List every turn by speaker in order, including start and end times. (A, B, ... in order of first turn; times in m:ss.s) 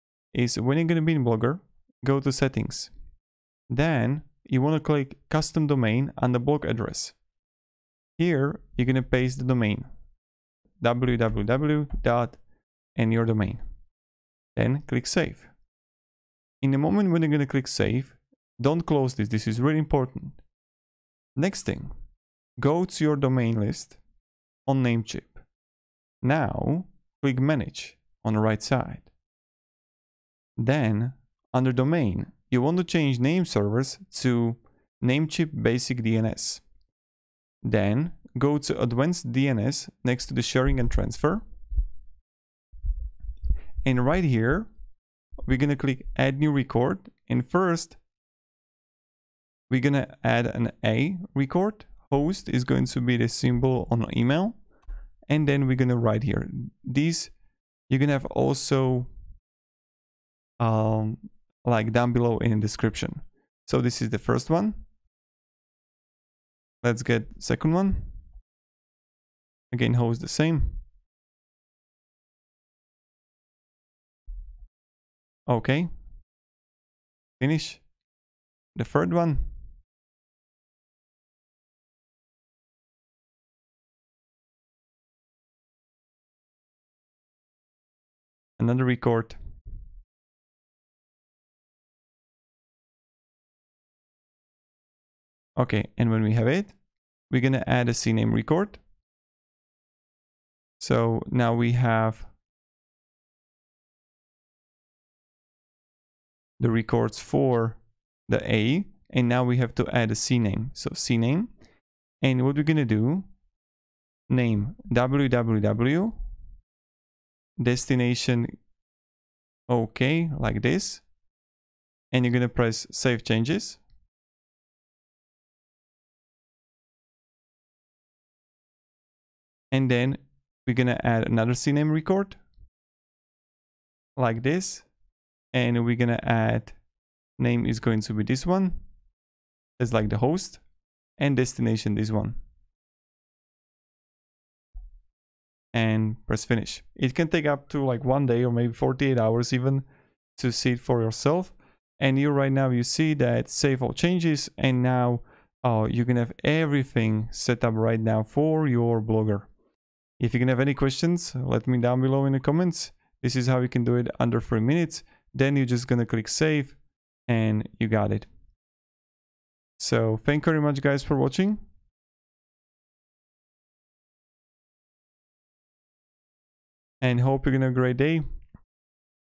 0:00.3-0:02.9 A
0:03.7-0:07.2 A
0:08.2-0:09.9 A
0:10.8-0:12.4 A
0:13.0-0:13.6 A
0:14.5-0:15.5 A
0:16.6-0:20.4 A
0:21.4-0:21.9 A
0:22.6-0:24.0 A
0:24.6-0:25.4 A
0:26.2-0:29.1 A
0:30.6-0:36.6 A
0:37.6-0:41.4 A
0:43.8-0:44.7 A
0:45.4-0:48.0 A
0:49.7-0:54.6 A
0:55.3-0:57.3 A
0:57.9-0:59.1 A
1:00.6-1:04.8 A
1:06.8-1:08.1 A
1:09.7-1:10.8 A
1:15.5-1:15.9 A
1:17.4-1:17.8 A
1:18.7-1:19.5 A
1:28.6-1:29.4 A
1:35.6-1:36.8 A
1:37.3-1:38.8 A
1:40.8-1:42.3 A
1:46.6-1:51.5 A
1:52.2-1:53.3 A
1:54.3-1:56.2 A
1:57.6-1:58.5 A
1:59.7-2:01.0 A
2:02.1-2:03.8 A
2:09.7-2:12.4 A
2:14.2-2:14.9 A
2:15.5-2:16.8 A
2:17.4-2:18.8 A
2:19.8-2:20.6 A
2:21.2-2:22.4 A
2:25.7-2:29.8 A
2:30.4-2:39.5 A
2:40.2-2:46.8 A
2:47.3-2:48.3 A
2:49.8-2:51.6 A
2:57.0-2:58.2 A